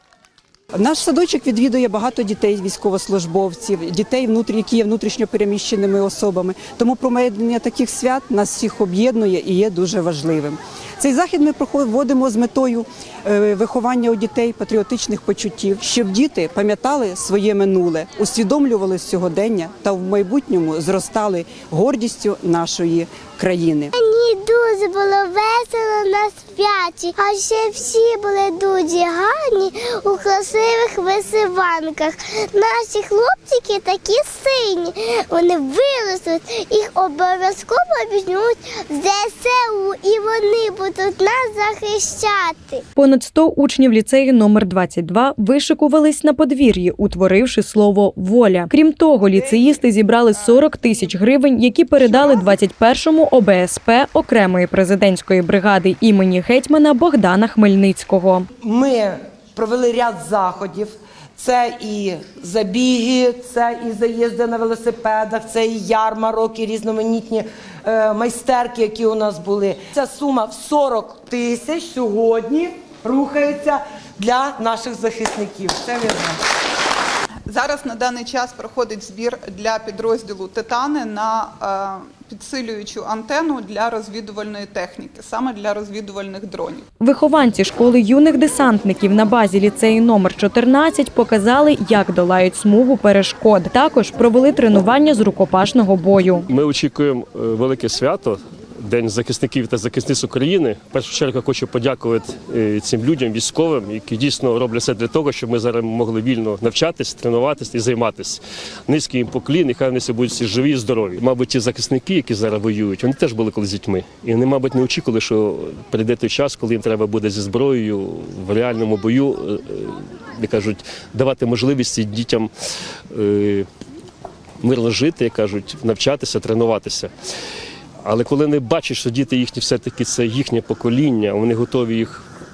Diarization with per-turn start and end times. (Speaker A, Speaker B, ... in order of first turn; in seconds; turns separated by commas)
Speaker A: 0.8-23.9, Speaker B: 23.9-42.8, Speaker C: 43.0-58.5, Speaker D: 58.6-76.3, Speaker E: 77.5-86.8, Speaker C: 87.0-96.5, Speaker F: 96.5-122.5, Speaker F: 123.1-123.7, Speaker F: 124.6-127.1, Speaker F: 128.0-132.2